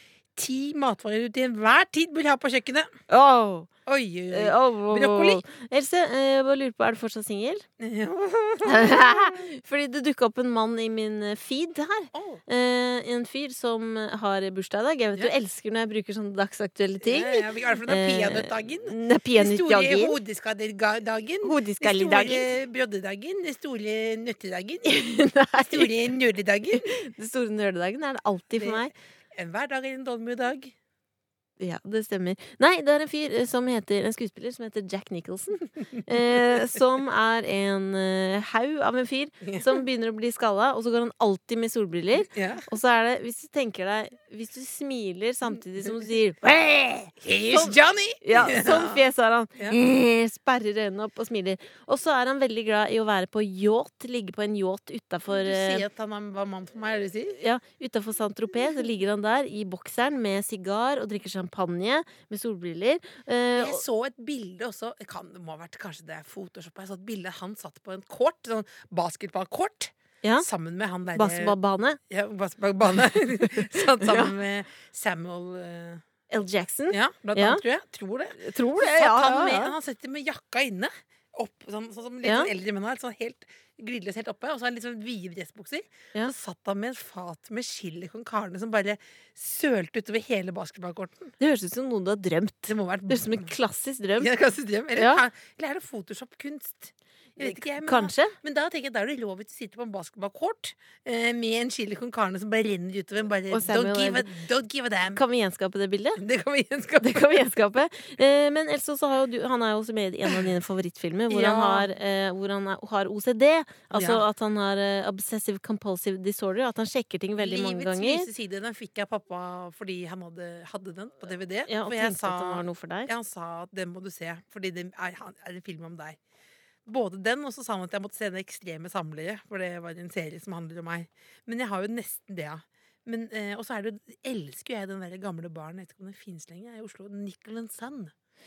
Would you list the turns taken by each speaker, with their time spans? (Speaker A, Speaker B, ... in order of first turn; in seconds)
Speaker A: 0.3-2.9, 3.9-5.4, 7.8-9.4, 12.1-12.4, 17.0-24.9, 25.7-26.9, 28.6-30.7, 39.5-39.8, 42.3-42.6, 46.5-49.0, 55.3-57.4, 63.5-71.5, 72.1-76.0, 76.9-91.3, 92.7-93.5, 94.2-105.2, 106.2-107.4, 111.3-111.9, 113.9-114.2, 117.4-126.2, 126.8-138.1
Speaker B: 3.1-3.7, 4.3-7.6, 8.7-20.2, 21.4-22.5, 24.9-25.9, 26.8-28.9, 31.6-55.8, 57.4-63.8, 71.1-72.0, 73.8-74.3, 76.3-77.6, 78.4-79.7, 82.2-82.5, 91.4-94.3, 94.9-95.2, 97.4-98.3, 103.5-104.3, 105.1-106.2, 107.0-118.3, 121.7-123.1